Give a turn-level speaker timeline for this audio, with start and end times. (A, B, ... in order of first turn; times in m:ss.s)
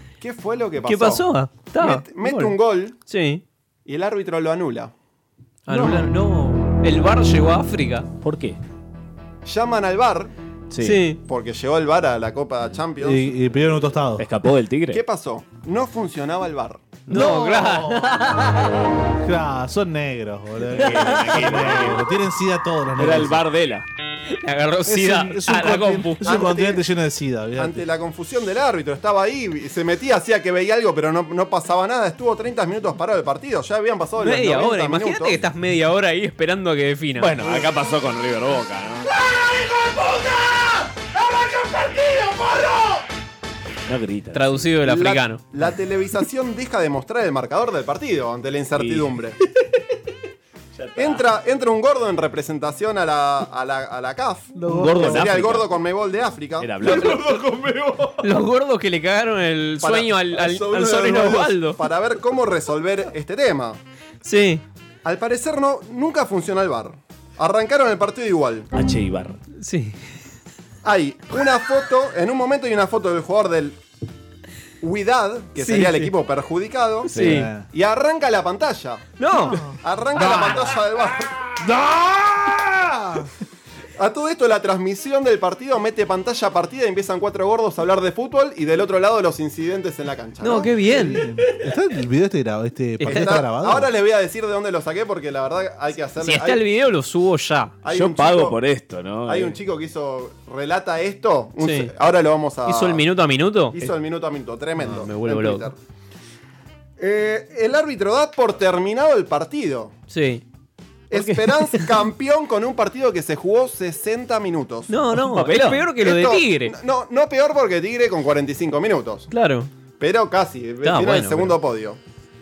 0:00.2-0:03.0 A
0:00.8-0:02.6 B
0:03.1-0:03.4 B
0:03.9-0:04.9 A
0:05.7-0:08.1 B
0:05.7-0:06.0 C
0:08.2-0:08.6 D
0:09.5-0:10.3 A
0:10.7-0:11.0 D
0:10.8-0:11.2 B
0:11.3-0:13.3 A
0:13.0-0:14.2 C
0:14.2-0:15.0 D
0:14.9-0:16.8 A
0:17.1-0:18.7 B
0:17.1-0:18.2 C
0:19.2-0:23.4 C
0:20.7-0:22.0 D
0:23.0-0:23.9 D
0:24.3-0:26.6 B
0:24.9-0:27.8 C
0:26.4-0:26.8 A
0:27.6-0:35.4 A
0:34.2-0:37.4 B
0:37.2-0:39.1 D
0:41.7-0:42.6 D
0:43.9-0:44.6 D
0:44.3-0:45.4 B
0:44.8-0:49.4 A
0:48.8-0:49.2 D
0:50.8-0:51.2 D
0:51.0-0:57.0 A
0:54.5-0:55.3 C
0:54.7-0:55.7 D
0:56.6-0:57.6 D
0:56.9-0:57.9 C
0:58.2-1:01.8 B
0:59.8-1:03.8 A
1:04.2-1:04.6 B
1:05.0-1:08.7 A
1:08.7-1:09.4 D
1:09.6-1:10.0 B
1:10.8-1:13.8 A
1:14.8-1:17.1 A
1:15.6-1:16.1 B
1:17.1-1:17.5 D
1:17.1-1:17.5 B
1:17.2-1:17.7 C
1:17.7-1:21.3 A
1:19.2-1:19.6 B
1:19.5-1:20.6 C
1:21.6-1:23.3 C
1:24.0-1:30.7 A
1:30.4-1:31.2 B
1:30.9-1:33.9 C
1:33.0-1:33.4 B
1:33.0-1:36.6 A
1:36.2-1:37.8 B
1:37.8-1:38.6 A
1:37.9-1:39.6 D
1:39.3-1:43.0 A
1:41.6-1:41.9 B
1:42.7-1:43.8 B
1:43.7-1:45.8 A
1:44.8-1:45.7 B
1:47.0-1:49.9 A
1:50.1-1:50.4 B
1:51.1-1:54.9 A
1:51.1-1:51.8 D
1:54.9-1:56.7 B
1:55.3-1:55.8 D
1:56.0-1:59.3 A
1:59.3-1:59.7 B
2:00.0-2:02.0 A
2:00.8-2:01.6 B